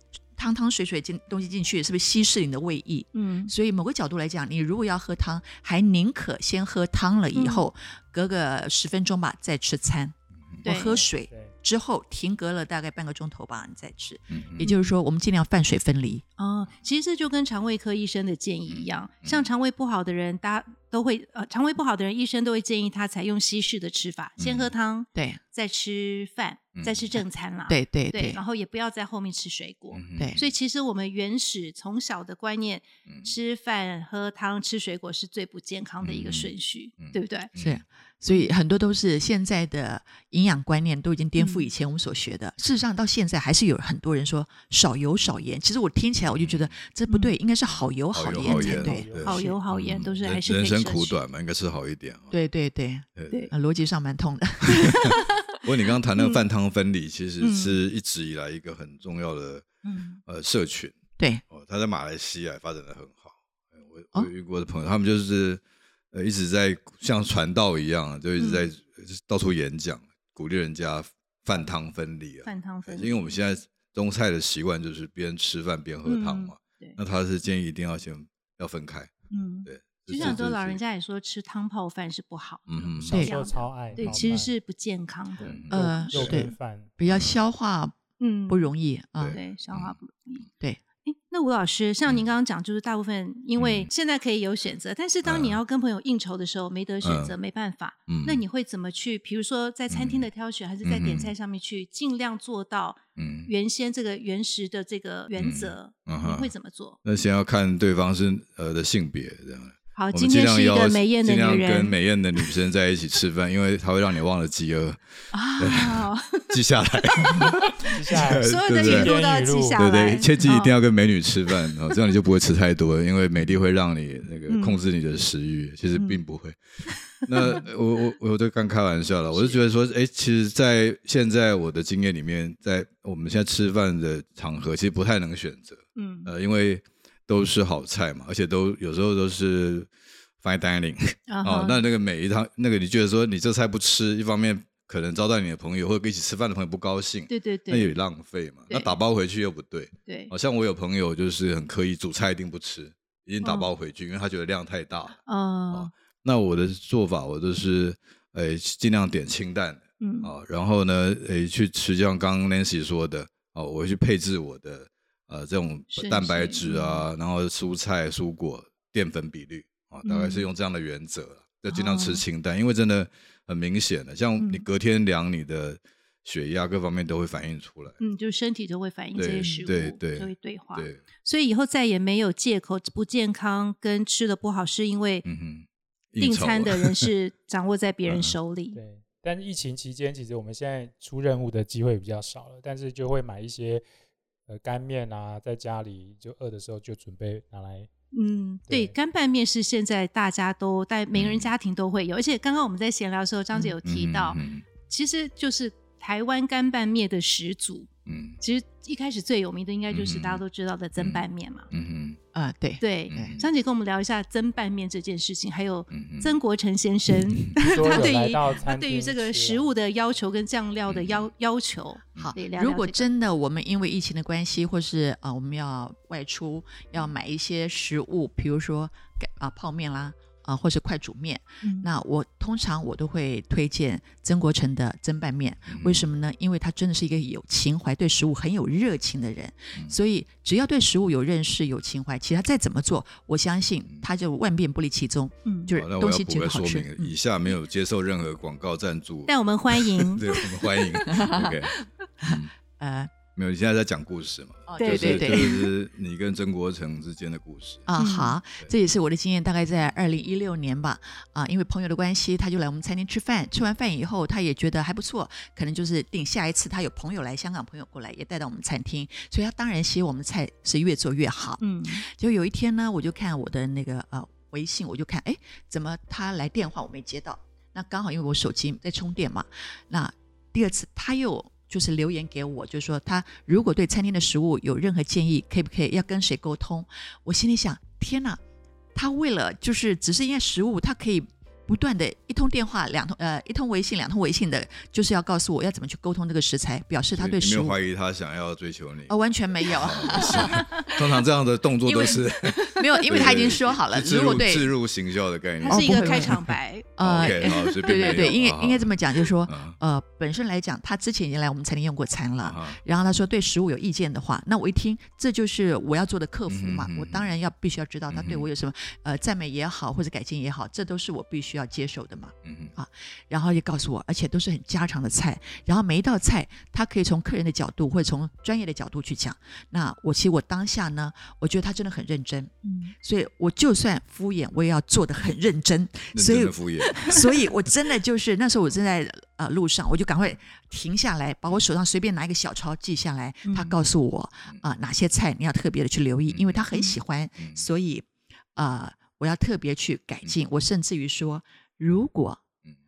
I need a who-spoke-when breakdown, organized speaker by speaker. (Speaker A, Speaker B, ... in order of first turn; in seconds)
Speaker A: 0.4-16.2, 27.7-28.4, 37.6-49.6, 52.3-55.2, 61.2-61.4, 85.7-89.4, 212.3-213.3, 222.2-247.1, 251.1-251.5, 252.2-253.1, 254.7-255.5, 257.9-288.4, 288.9-297.8, 299.1-301.0, 301.9-304.6, 305.7-306.4, 307.0-332.5, 333.0-352.4
Speaker B: 3.1-3.5, 7.3-7.7, 10.6-11.0, 14.6-14.9, 16.4-37.5, 41.4-41.7, 48.4-51.2, 54.7-55.3, 56.2-56.4, 57.4-57.8, 59.8-60.2, 68.4-68.6, 72.4-73.3, 76.1-77.0, 79.3-85.6, 88.2-88.7, 89.3-90.5, 91.0-107.0, 110.0-112.5, 115.3-116.5, 117.1-117.5, 118.4-120.7, 124.5-124.8, 126.0-126.2, 126.9-127.6, 129.3-129.6, 136.0-136.3, 141.3-141.8, 147.3-148.0, 148.7-149.0, 150.1-150.3, 153.4-153.7, 155.2-155.9, 160.0-160.3, 165.9-167.0, 170.0-170.4, 171.7-172.2, 174.4-174.7, 178.0-185.2, 186.2-188.8, 198.1-207.9, 208.4-211.7, 212.8-223.0, 231.6-231.9, 245.4-245.7, 249.3-250.7, 254.8-255.7, 258.0-258.4, 271.6-272.0, 302.8-303.4, 305.6-308.4, 332.6-332.9, 343.4-343.8, 346.7-347.0
Speaker C: 10.9-11.5, 48.7-49.4, 83.0-84.5, 85.4-86.9, 117.9-119.9, 188.7-193.8, 194.5-197.9, 198.7-198.9, 217.6-219.7
Speaker D: 14.3-14.6, 18.7-19.5, 24.4-24.7, 26.8-27.1, 29.9-30.4, 33.1-33.3, 36.0-37.8, 46.4-46.7, 48.1-52.3, 53.1-53.5, 54.8-59.6, 60.2-61.0, 61.5-65.6, 66.1-79.1, 79.7-80.8, 82.7-83.2, 84.0-84.2, 85.4-86.5, 87.1-87.4, 89.2-90.0, 93.6-93.9, 95.2-95.6, 97.0-97.3, 98.1-98.5, 99.9-100.3, 100.8-101.3, 103.2-103.5, 105.4-106.5, 107.0-119.2, 119.8-126.6, 127.2-139.9, 140.4-155.2, 155.7-177.9, 179.2-181.0, 185.2-187.1, 188.1-188.4, 201.1-201.5, 203.8-204.6, 208.1-208.4, 209.9-210.4, 211.0-212.2, 213.1-213.5, 215.9-216.4, 217.4-218.0, 220.9-221.2, 235.7-236.1, 245.7-252.5, 253.3-257.9, 297.2-308.9, 309.5-309.8, 312.4-312.8, 316.5-317.3, 318.1-318.5, 322.4-322.7, 336.1-337.3, 346.3-346.6, 347.4-347.6